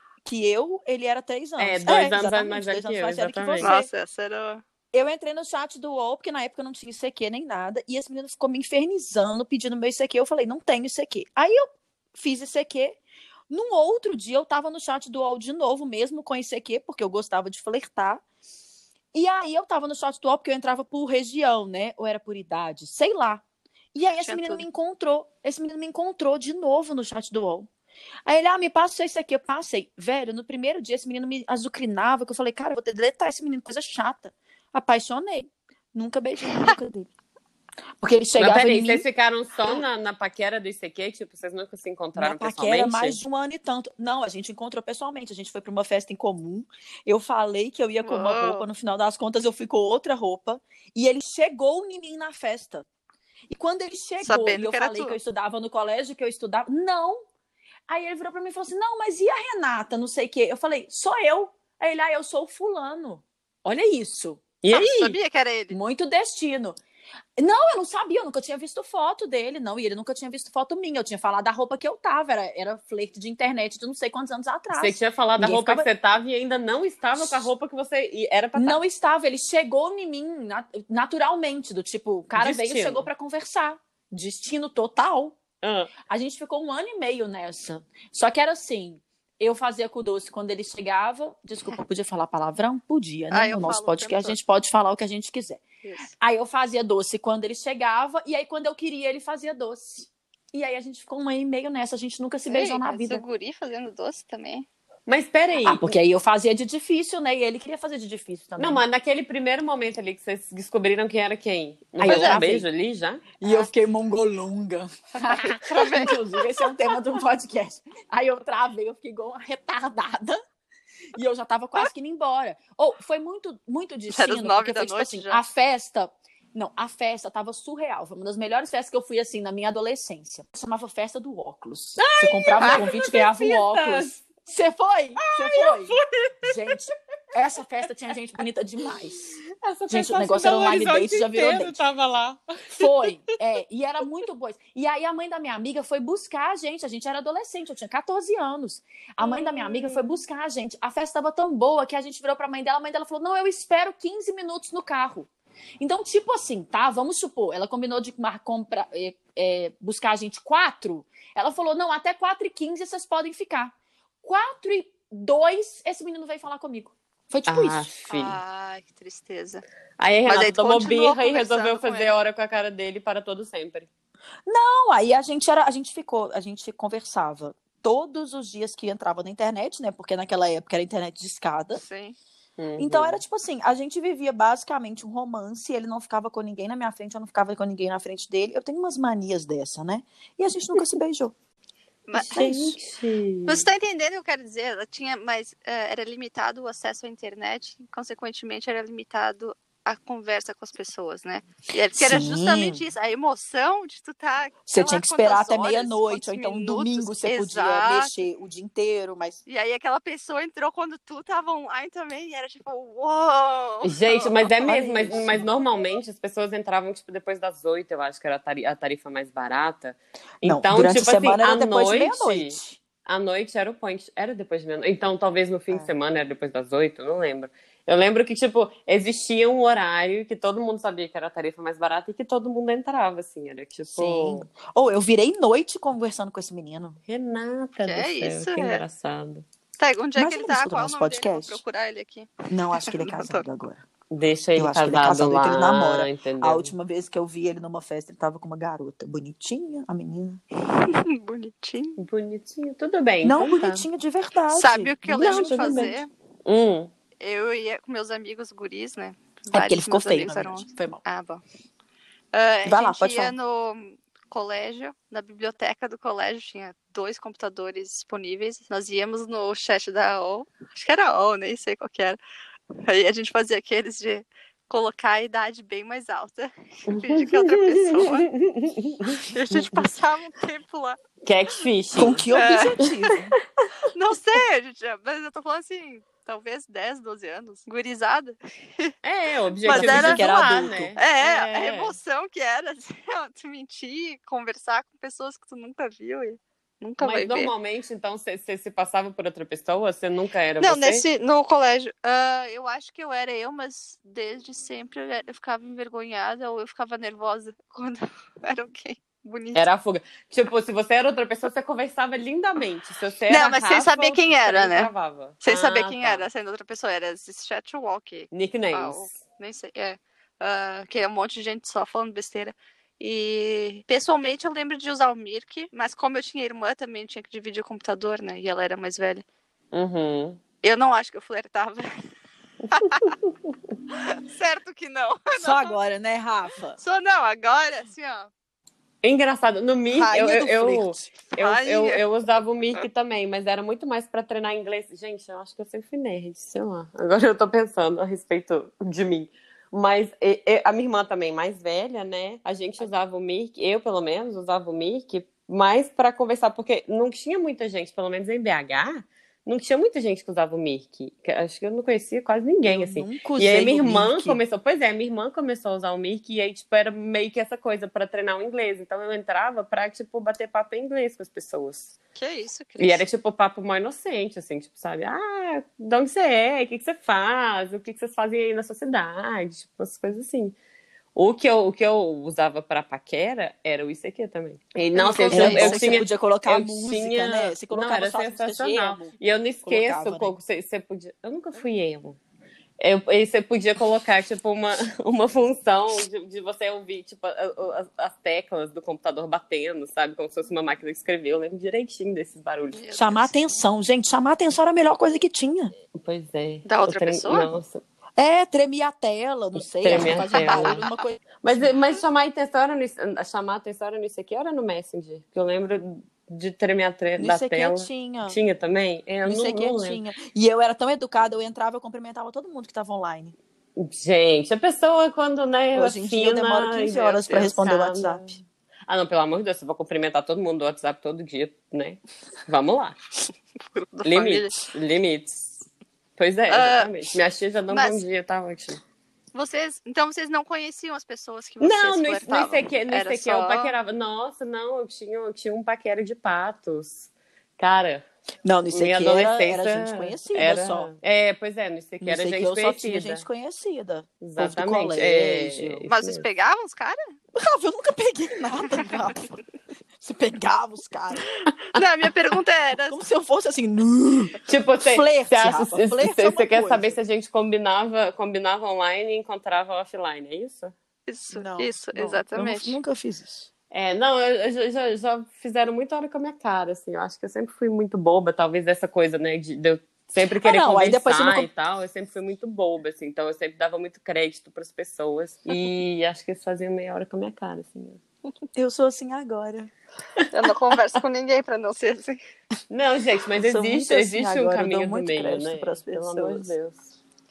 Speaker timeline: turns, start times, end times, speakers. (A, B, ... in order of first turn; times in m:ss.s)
0:00.2-0:03.9 A
0:01.6-0:03.7 B
0:03.6-0:04.6 C
0:04.9-0:13.0 A
0:13.5-0:18.2 A
0:19.1-0:23.4 A
0:23.9-0:27.7 A
0:24.2-0:24.6 C
0:28.3-0:37.1 A
0:38.0-0:39.0 A
0:38.4-0:43.2 B
0:42.2-0:52.9 A
0:48.0-0:48.6 C
0:53.5-0:57.2 A
0:54.2-0:55.2 C
0:57.9-1:04.4 A
1:04.6-1:05.2 B
1:04.7-1:05.8 C
1:05.7-1:06.8 A
1:07.4-1:15.9 A
1:14.7-1:18.8 B
1:17.2-1:17.5 A
1:18.6-1:25.4 A
1:22.4-1:23.1 B
1:25.6-1:25.9 B
1:26.1-1:35.6 A
1:33.3-1:34.4 C
1:35.8-1:36.1 C
1:36.2-1:43.2 A
1:42.5-1:44.7 C
1:45.1-1:46.0 B
1:45.6-1:48.8 A
1:48.6-1:53.2 B
1:52.0-1:52.7 A
1:52.1-1:52.4 C
1:53.4-2:00.4 A
1:53.4-1:53.7 C
1:55.5-1:56.7 C
2:01.2-2:19.4 A
2:04.1-2:05.4 C
2:12.0-2:14.2 B
2:15.2-2:16.8 B
2:19.5-2:22.9 B
2:19.9-2:21.8 A
2:22.7-2:35.3 A
2:29.2-2:30.2 B
2:35.8-2:47.9 A
2:47.5-2:48.4 B
2:48.1-2:49.6 C
2:50.0-2:53.9 B
2:50.3-2:52.1 C
2:54.5-3:01.8 A
3:01.8-3:02.2 C
3:02.6-3:03.2 B
3:02.8-3:11.4 A
3:12.1-3:12.7 C
3:12.2-3:12.7 A
3:12.3-3:13.7 B
3:13.5-3:28.1 C
3:21.9-3:22.8 A
3:24.7-3:29.4 A
3:29.5-3:34.4 C
3:33.8-3:54.5 B
3:34.6-3:35.5 A
3:40.4-3:42.8 A
3:54.0-3:57.0 A
3:57.1-3:59.5 B
3:57.8-3:58.8 C
3:59.8-4:03.4 C
4:00.2-4:01.6 A
4:02.5-4:03.8 A
4:04.1-4:06.7 B
4:04.6-4:10.4 A
4:10.7-4:12.0 C
4:12.0-4:13.9 B
4:13.2-4:15.9 A
4:14.5-4:16.1 C
4:15.1-4:16.9 B
4:17.2-4:21.4 C
4:19.5-4:21.0 A
4:22.3-4:32.2 C
4:22.7-4:23.3 A
4:32.8-4:38.3 C
4:36.9-4:39.9 B
4:39.1-4:41.0 C
4:41.2-4:42.2 B
4:42.0-4:43.3 A
4:42.3-4:42.7 C
4:43.9-4:48.9 C
4:49.0-4:52.0 B
4:49.6-4:50.3 C
4:49.7-4:51.0 A
4:51.0-4:57.5 C
4:57.0-5:01.0 B
5:00.6-5:09.6 C
5:09.6-5:16.3 B
5:13.3-5:14.9 C
5:15.4-5:29.2 C
5:18.3-5:19.2 B
5:29.7-5:30.4 B
5:30.6-5:31.9 C
5:32.7-5:33.1 C
5:32.8-5:33.3 B
5:34.0-5:35.8 C
5:35.4-5:36.8 A
5:36.8-5:38.3 C
5:39.0-6:11.9 B
5:39.9-5:41.1 A
5:41.4-5:42.0 C
6:02.6-6:04.4 A
6:12.2-6:13.1 C
6:12.8-6:20.6 B
6:21.2-6:32.2 B
6:25.0-6:26.0 C
6:25.3-6:29.1 A
6:29.6-6:30.4 A
6:32.8-6:42.8 B
6:42.7-6:43.3 C
6:42.9-6:45.7 A
6:45.9-6:47.8 B
6:46.6-6:47.5 C
6:48.2-6:51.7 A
6:49.6-6:50.8 B
6:50.1-6:51.0 C
6:51.4-7:00.0 B
6:57.2-6:58.4 A
6:59.2-7:03.4 A
7:03.8-7:13.0 B
7:05.8-7:08.2 A
7:13.7-7:14.6 C
7:14.0-7:15.6 B
7:16.2-7:18.8 B
7:16.5-7:16.9 C
7:17.7-7:18.0 C
7:19.3-7:23.7 C
7:21.6-7:28.0 B
7:28.4-7:30.9 A
7:28.7-7:33.2 B
7:32.0-7:35.9 A
7:34.2-7:36.3 B
7:35.9-7:37.1 C
7:37.4-7:39.4 A
7:40.0-7:41.3 A
7:41.7-7:43.0 C
7:42.9-7:47.0 A
7:44.5-7:50.7 B
7:51.1-7:52.8 C
7:51.3-7:53.5 A
7:53.7-8:08.0 B
8:00.4-8:01.5 A
8:08.6-8:09.7 A
8:10.3-8:12.2 C
8:12.7-8:16.9 B
8:13.4-8:16.5 A